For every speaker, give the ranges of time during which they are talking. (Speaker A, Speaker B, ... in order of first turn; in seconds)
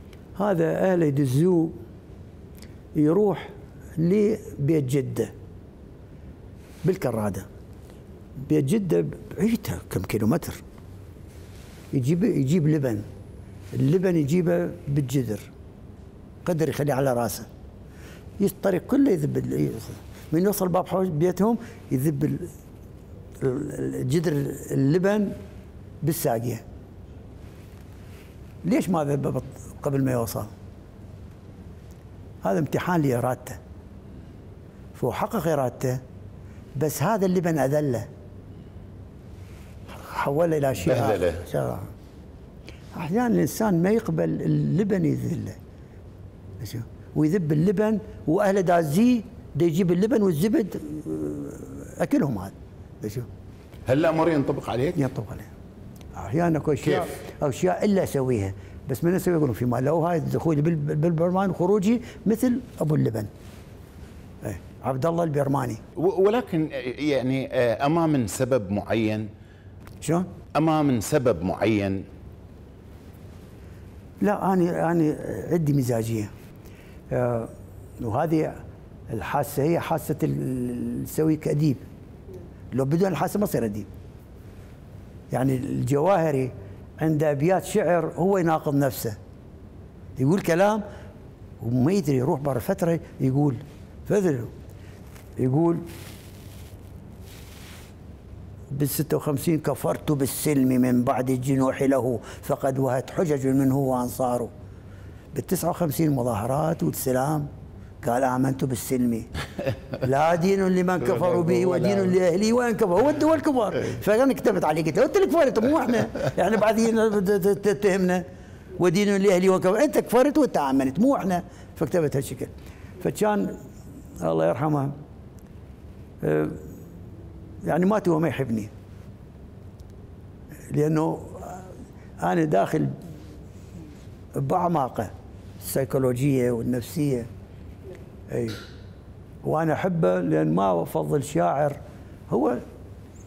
Speaker A: 0.3-1.8, 2.9-5.3, 6.8-7.5, 8.4-10.6, 11.9-13.0, 13.7-15.5, 16.4-17.5, 18.4-22.5, 23.4-25.4, 26.0-26.6, 28.6-30.5, 32.4-33.6, 34.9-36.0, 36.8-38.1, 39.9-41.9, 42.9-45.6, 46.6-53.3, 55.0-55.5, 56.1-63.3, 64.4-65.8, 70.0-70.3, 74.2-76.3, 77.1-78.6, 79.1-81.8, 82.7-83.9, 85.3-89.2, 90.2-90.8, 91.6-94.5, 95.4-95.8, 98.7-104.5, 105.3-107.5, 108.0-109.3, 109.9-118.2, 118.8-123.6, 124.2-124.9, 126.2-126.7, 127.6-128.7, 130.7-132.9, 134.3-137.3, 138.3-138.6, 139.4-141.8, 142.3-142.6
Speaker B: 41.0-41.3, 53.9-55.0, 66.0-69.3, 70.5-72.0